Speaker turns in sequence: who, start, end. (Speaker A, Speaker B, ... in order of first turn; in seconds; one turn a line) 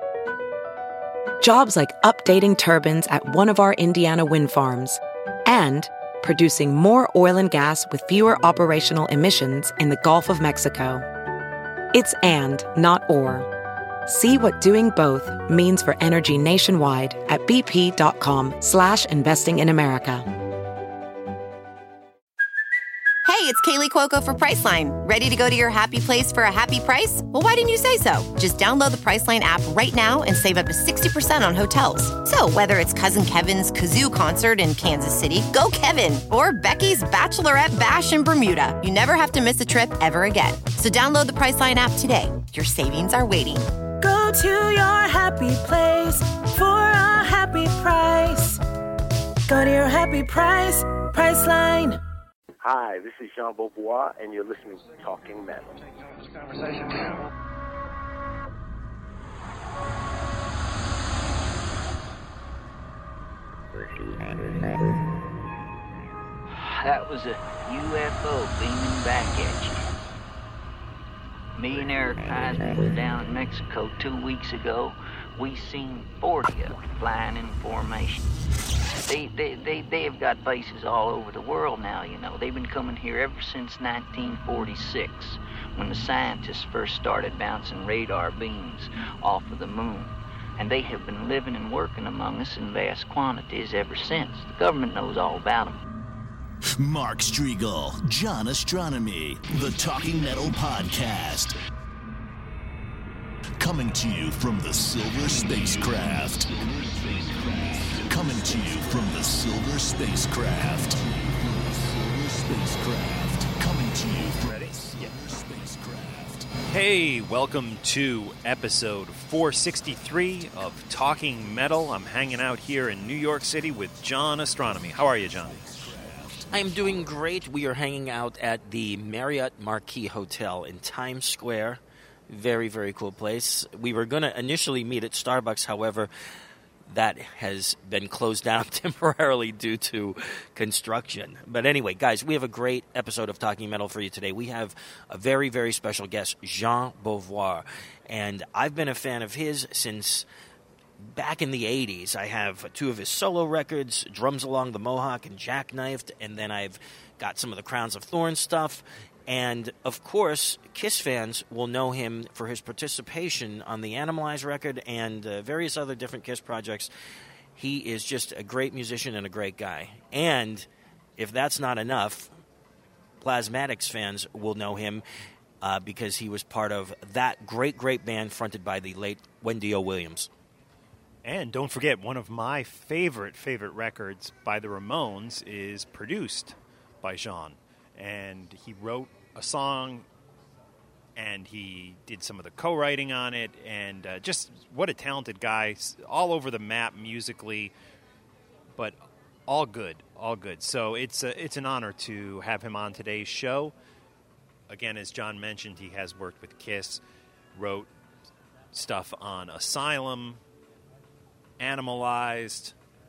Speaker A: 1.4-11.1
Speaker A: 11.9-13.5
Speaker A: 14.1-20.2
Speaker B: 23.2-43.6
Speaker C: 44.0-48.6
Speaker C: 49.5-52.0
Speaker D: 52.6-55.9
Speaker E: 66.5-69.8
Speaker E: 71.5-78.2
Speaker E: 79.1-95.8
Speaker F: 96.8-101.5
Speaker F: 103.6-116.5
Speaker G: 114.5-115.1
Speaker G: 116.7-125.7
Speaker F: 125.5-126.5
Speaker H: 126.5-136.1
Speaker H: 136.9-150.3
Speaker H: 151.0-166.9
Speaker H: 167.5-172.3
Speaker H: 173.2-175.0
Speaker H: 175.6-180.3
Speaker G: 181.2-190.1
Speaker G: 191.2-197.7
Speaker G: 198.7-203.7
Speaker G: 204.7-207.0
Speaker G: 207.5-207.9
Speaker G: 208.7-210.4
Speaker G: 211.6-212.8